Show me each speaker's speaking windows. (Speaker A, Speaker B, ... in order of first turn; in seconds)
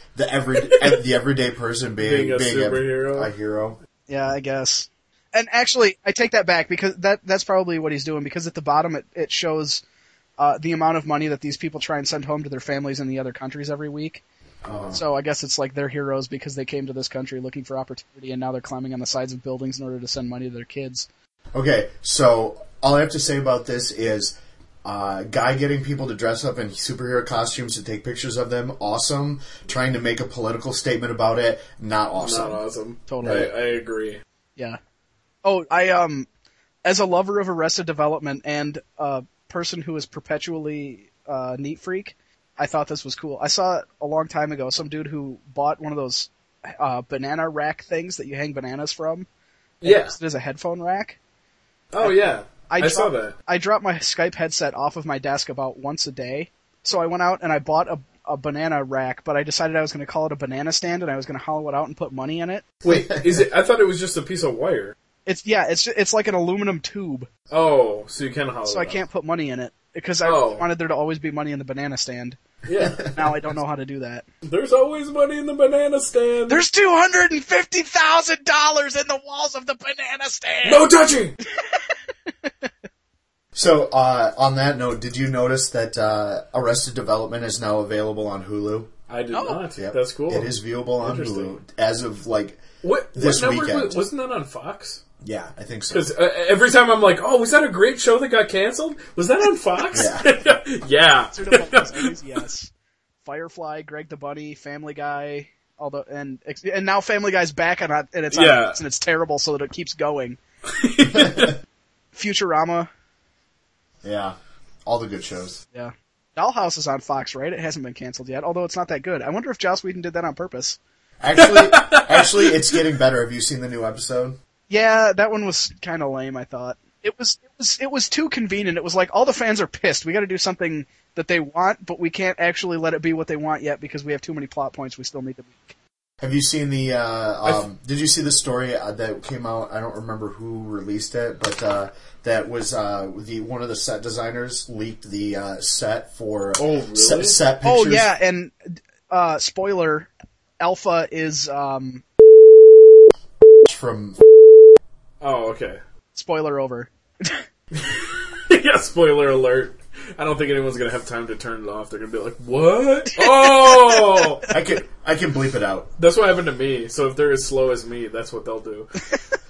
Speaker A: 0.2-3.8, 14.6-15.0, 21.5-32.6, 33.2-33.5, 83.5-88.9, 89.8-92.6, 93.1-94.0, 95.2-96.1, 99.9-100.3, 114.0-115.6, 121.2-124.4, 136.2-148.1, 153.6-154.2, 164.5-165.9
Speaker B: 0.6-1.0, 2.0-3.3, 32.2-34.2, 49.8-50.2, 51.9-53.4, 62.8-65.0, 67.5-69.0, 70.2-70.7, 72.7-73.2, 74.4-76.6, 80.7-81.4, 89.1-91.5, 92.8-95.0, 95.9-102.1, 108.3-108.8, 110.7-111.6, 121.4-122.8, 146.6-147.4, 155.2-155.8, 157.8-164.4, 166.0-169.1
Speaker C: 4.1-9.8, 10.4-14.2, 14.9-21.1, 33.1-33.5, 35.5-36.3, 36.9-49.3, 49.8-51.2, 52.0-62.7, 65.3-67.3, 68.7-72.4, 72.9-74.2, 76.5-80.9, 89.3-89.6, 101.3-102.7, 103.2-110.4, 112.1-112.9, 115.7-120.8, 124.7-135.7, 147.6-148.6, 149.1-152.0, 156.1-157.4, 163.2-164.4